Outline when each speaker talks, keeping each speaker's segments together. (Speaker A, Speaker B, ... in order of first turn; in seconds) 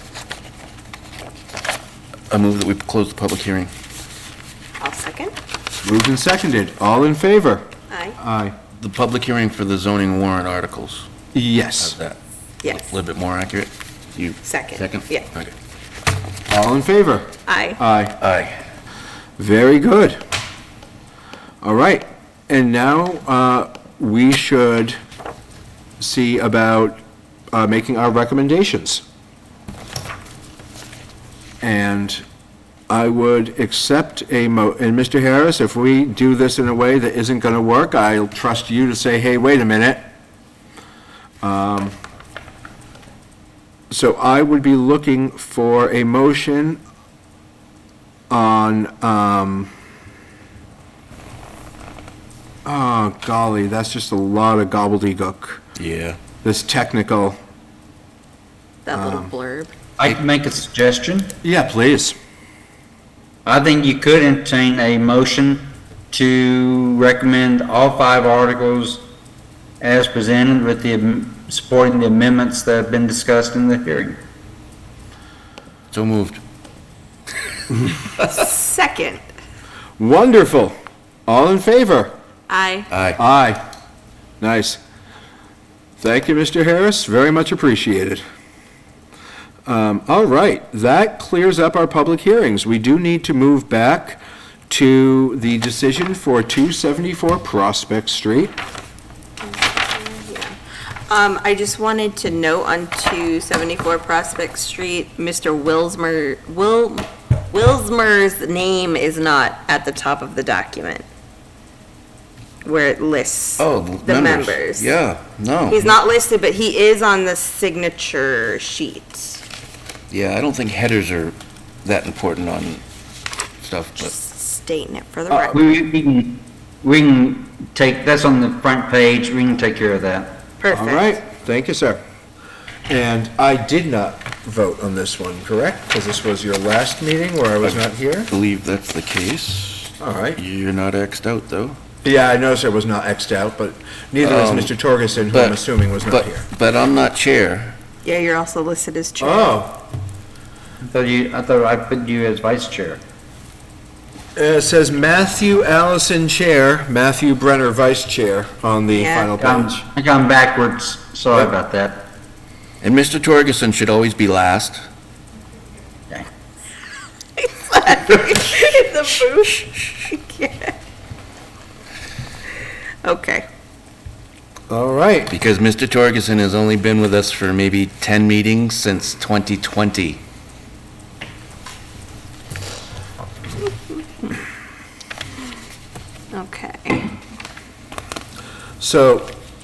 Speaker A: 2.3-3.7, 8.8-11.1, 11.8-15.5, 18.2-18.6, 55.8-56.2, 75.9-76.4, 82.9-83.2, 113.6-116.0, 120.1-122.8, 123.6-124.1, 138.3-141.8, 144.2-144.7, 145.3-147.8, 162.8-164.8, 175.3-180.2
Speaker B: 4.8-5.3, 7.9-8.2, 12.6-12.9, 14.4-15.3, 17.4-17.8, 58.9-59.7, 78.1-79.2, 82.5-82.9, 99.4-100.5, 101.1-111.0, 112.6-114.9, 115.7-119.4, 124.0-125.6, 130.6-131.1, 148.0-149.6, 158.9-159.3, 167.4-170.8, 173.0-173.5, 186.3-187.1
Speaker C: 5.8-7.6, 8.2-8.6, 11.3-11.9, 16.5-18.2, 19.4-20.2, 21.6-25.0, 26.0-27.0, 27.5-29.0, 31.6-32.2, 32.9-40.1, 41.4-42.0, 43.9-46.8, 48.3-49.7, 52.6-55.6, 56.4-57.4, 58.9-59.3, 61.4-62.2, 80.0-80.8, 81.2-82.1, 83.2-83.6, 84.4-84.8, 86.0-88.2, 89.7-98.5, 130.7-132.0, 132.9-138.3, 140.0-140.4, 142.0-146.4, 149.2-149.8, 154.3-159.7, 174.7-175.3, 188.8-189.3
Speaker D: 60.0-61.3, 63.5-69.0, 69.8-74.2, 125.3-130.4, 150.8-153.0, 159.4-162.1